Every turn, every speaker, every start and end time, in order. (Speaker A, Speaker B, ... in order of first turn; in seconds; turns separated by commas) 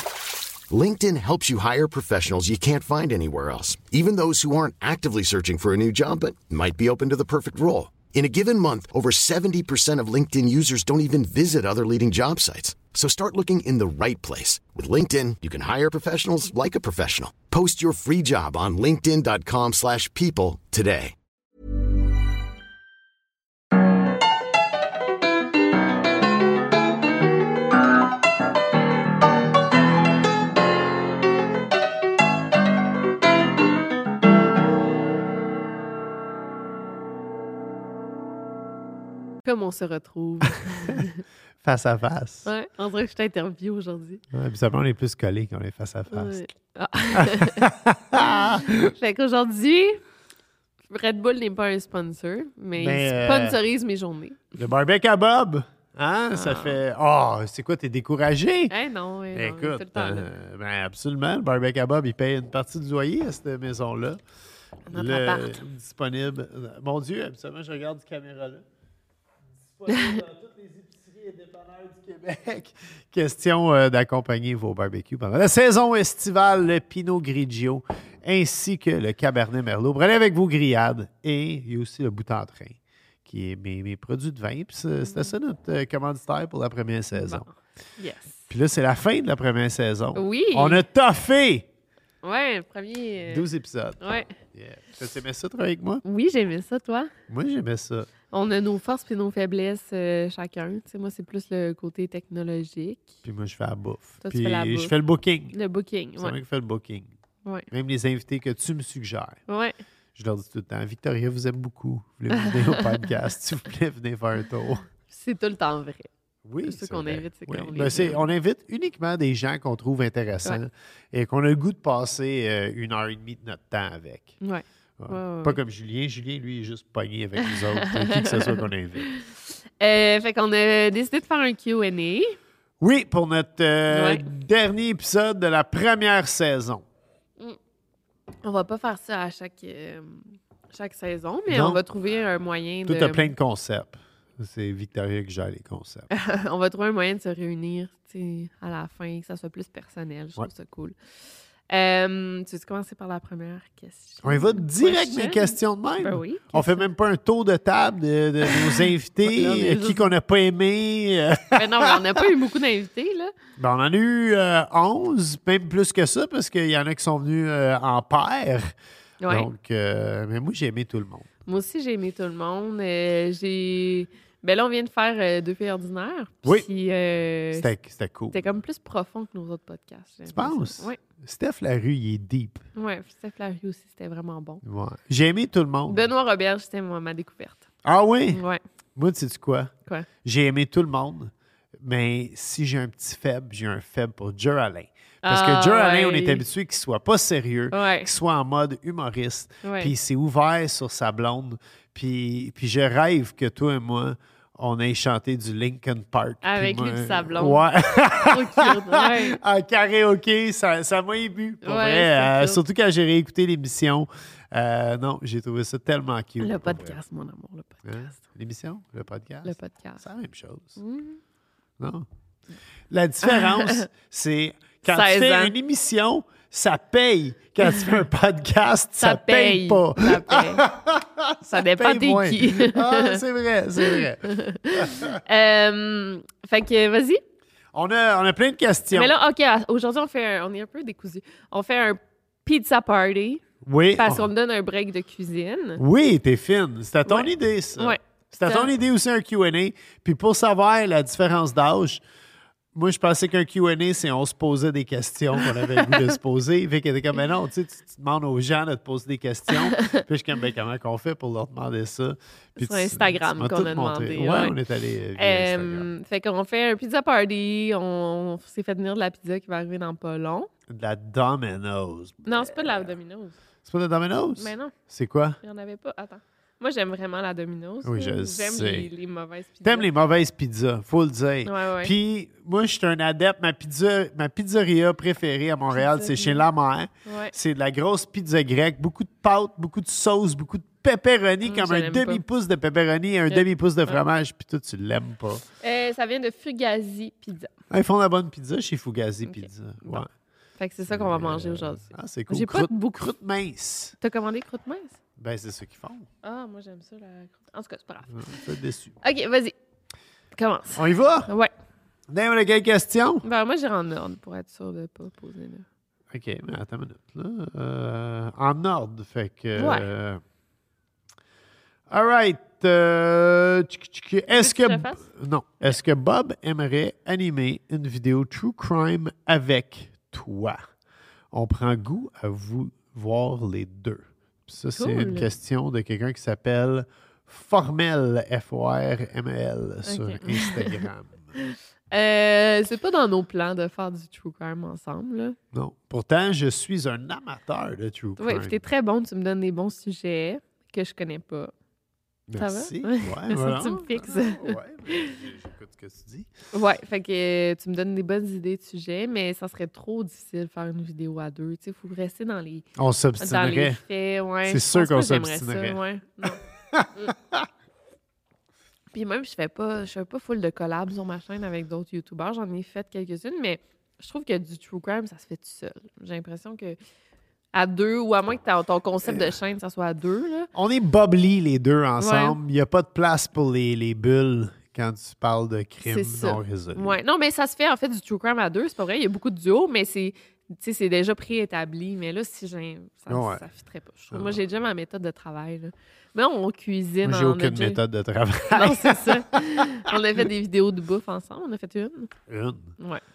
Speaker A: 0.7-21.1, Speaker B: 39.4-41.2, Speaker C: 41.6-42.5, Speaker B: 42.4-44.2, Speaker C: 44.3-46.4, Speaker B: 46.1-47.7, Speaker C: 47.1-48.9, Speaker B: 48.8-50.0, Speaker B: 50.9-54.5, Speaker C: 52.8-53.6, Speaker C: 54.5-58.7, Speaker B: 56.3-56.8, Speaker B: 58.7-60.3, Speaker C: 59.3-64.2, Speaker B: 64.9-65.6, Speaker C: 64.9-68.6, Speaker C: 69.7-87.5, Speaker B: 85.0-85.3, Speaker B: 87.1-88.5, Speaker C: 88.5-91.7, Speaker B: 90.1-90.8, Speaker B: 92.2-93.5, Speaker C: 93.3-94.0, Speaker B: 94.0-94.3, Speaker C: 94.5-96.0, Speaker B: 96.0-97.1, Speaker C: 97.3-98.1, Speaker B: 98.3-103.1, Speaker C: 103.2-105.5, Speaker B: 104.2-104.9, Speaker B: 105.5-106.4, Speaker C: 106.2-107.1, Speaker C: 107.7-109.4, Speaker B: 109.5-109.8, Speaker C: 110.1-114.9, Speaker B: 112.4-112.8, Speaker B: 115.1-116.1, Speaker C: 116.5-124.4, Speaker B: 116.6-118.2, Speaker B: 124.4-125.6, Speaker C: 125.0-129.1, Speaker B: 127.5-132.4, Speaker C: 132.8-136.8, Speaker B: 133.9-134.2, Speaker B: 138.4-143.3, Speaker C: 141.5-141.8, Speaker C: 142.8-146.1, Speaker B: 146.1-150.9, Speaker B: 151.7-156.9, Speaker C: 154.2-162.2, Speaker B: 158.4-160.1, Speaker B: 161.5-163.3, Speaker C: 163.6-168.7, Speaker B: 169.2-169.5, Speaker C: 169.3-171.3, Speaker B: 171.4-177.7, Speaker C: 177.5-178.5, Speaker B: 178.3-181.0, Speaker C: 180.3-182.6, Speaker B: 182.8-184.6, Speaker C: 184.6-186.1, Speaker B: 185.9-187.7, Speaker C: 187.8-188.4, Speaker B: 188.3-188.6, Speaker C: 188.9-189.7, Speaker C: 190.2-217.0, Speaker B: 195.2-196.4, Speaker B: 197.7-198.1, Speaker B: 199.6-199.9, Speaker B: 206.4-209.4, Speaker B: 211.6-212.6, Speaker B: 216.4-218.2, Speaker C: 217.8-220.8, Speaker B: 219.4-220.0, Speaker B: 220.8-221.2, Speaker C: 221.8-222.1, Speaker C: 222.9-235.2, Speaker B: 223.2-223.9, Speaker B: 224.8-225.6, Speaker B: 229.0-230.7, Speaker B: 231.4-233.2, Speaker B: 233.8-237.2, Speaker C: 237.7-239.1, Speaker B: 238.9-243.4, Speaker C: 243.6-244.3, Speaker B: 243.9-245.8, Speaker C: 245.8-252.0, Speaker B: 247.1-248.7, Speaker C: 252.7-265.9, Speaker B: 259.7-260.0, Speaker B: 262.6-264.6, Speaker B: 265.2-270.5, Speaker C: 270.7-272.9, Speaker B: 272.2-273.4, Speaker C: 273.6-275.4, Speaker B: 274.4-274.8, Speaker B: 275.4-279.9, Speaker C: 277.8-278.9, Speaker C: 279.6-295.4, Speaker B: 281.4-281.9, Speaker B: 285.7-286.4, Speaker B: 287.1-287.3, Speaker B: 291.4-292.2, Speaker B: 293.3-294.0, Speaker B: 295.6-297.5, Speaker C: 297.7-300.1, Speaker B: 299.2-300.1, Speaker B: 300.6-303.0, Speaker C: 300.9-303.9, Speaker B: 304.0-305.0, Speaker C: 305.2-306.1, Speaker B: 306.2-308.4, Speaker C: 308.1-308.9, Speaker B: 309.0-309.6, Speaker B: 310.4-311.5, Speaker C: 310.8-311.3, Speaker C: 312.1-313.2, Speaker B: 313.2-315.6, Speaker C: 316.1-320.2, Speaker B: 319.6-319.9, Speaker C: 321.9-330.7, Speaker B: 324.3-325.1, Speaker C: 331.3-341.3, Speaker B: 334.8-335.3, Speaker B: 339.9-340.9, Speaker B: 341.4-345.4, Speaker C: 345.5-348.6, Speaker B: 348.2-351.5, Speaker C: 352.3-356.3, Speaker B: 352.4-355.1, Speaker B: 356.5-362.7, Speaker C: 362.8-363.8, Speaker B: 363.2-366.4, Speaker C: 364.4-367.5, Speaker B: 368.9-376.8, Speaker B: 377.5-380.5, Speaker C: 379.1-379.3, Speaker C: 380.5-387.0, Speaker B: 382.0-382.4, Speaker B: 385.8-397.8, Speaker C: 393.1-393.4, Speaker C: 394.1-394.4, Speaker C: 397.0-399.9, Speaker B: 398.5-402.1, Speaker C: 402.3-402.7